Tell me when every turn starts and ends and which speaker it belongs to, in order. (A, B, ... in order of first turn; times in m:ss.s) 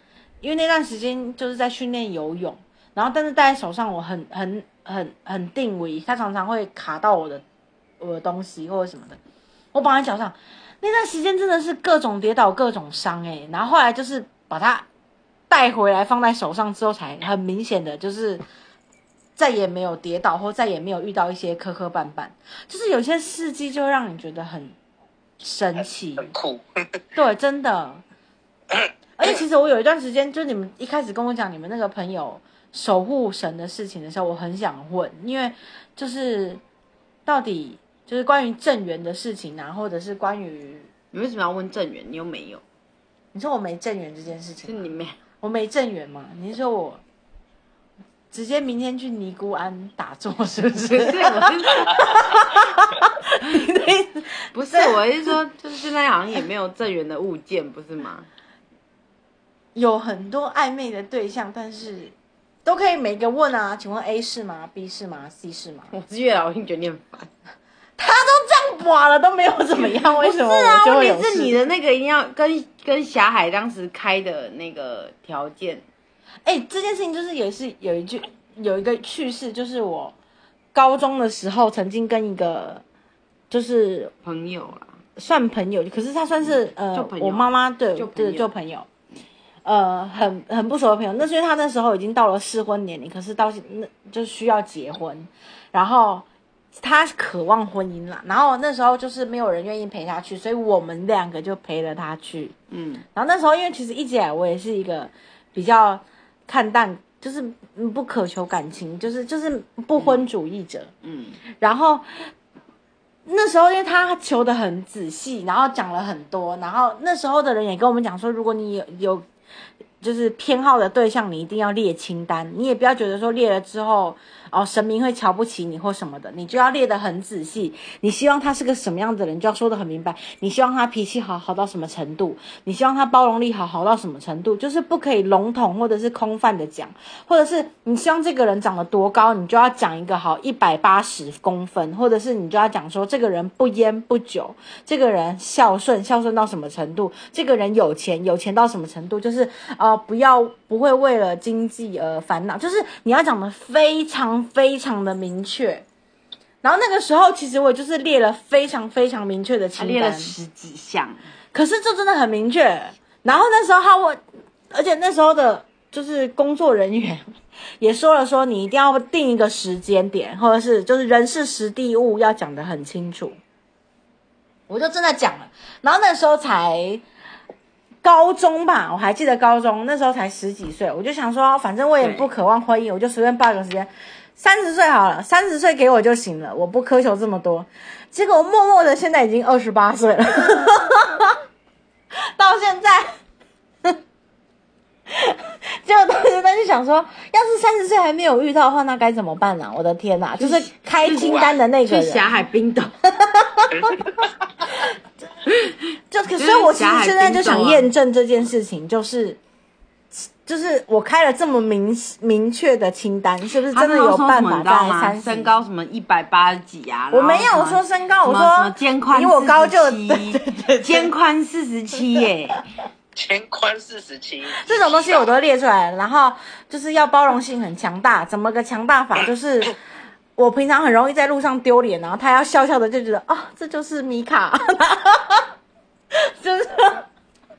0:00.4-0:07.4 A
0:08.0-0:09.2 A
0:09.7-0:14.8 A
0:15.5-0:18.4 A
0:19.4-0:24.7 A
0:25.4-0:26.3 A
0:25.8-0:26.6 B
0:27.1-0:28.0 A
0:28.7-0:29.4 B
0:29.2-0:36.6 A
0:37.2-0:40.9 A
0:41.1-0:42.6 C
0:43.3-0:44.9 A
0:44.6-0:45.1 C
0:45.4-0:47.0 A
0:48.3-0:55.0 A
0:50.8-0:51.9 C
0:54.5-0:58.3 C
0:59.7-1:02.1 A
1:02.6-1:05.9 A
1:05.9-1:07.3 C
1:08.0-1:11.6 A
1:09.8-1:15.8 C
1:16.4-1:20.1 A
1:20.7-1:22.8 A
1:23.5-1:24.1 A
1:24.2-1:25.0 C
1:25.2-1:28.9 A
1:26.9-1:28.5 C
1:29.6-1:42.5 A
1:42.7-1:43.0 C
1:43.1-1:50.9 A
1:50.0-1:50.2 C
1:51.0-1:51.4 C
1:51.6-1:52.3 A
1:53.2-1:59.2 A
2:00.0-2:35.8 A
2:36.6-2:40.3 A
2:39.8-2:41.2 C
2:41.5-2:44.2 A
2:44.7-2:47.2 A
2:47.8-2:53.4 A
2:54.7-2:57.0 A
2:58.0-3:11.4 A
3:02.0-3:02.3 C
3:12.4-3:13.2 A
3:15.1-3:22.3 A
3:20.4-3:23.0 C
3:21.1-3:21.6 B
3:23.2-3:24.0 A
3:23.7-3:24.3 B
3:25.5-3:25.8 C
3:26.1-3:29.4 A
3:26.4-3:27.9 C
3:30.1-3:35.5 A
3:33.7-3:42.6 C
3:37.1-3:41.1 A
3:43.1-3:45.3 B
3:44.4-3:49.8 A
3:50.4-3:55.5 A
3:56.1-3:57.0 A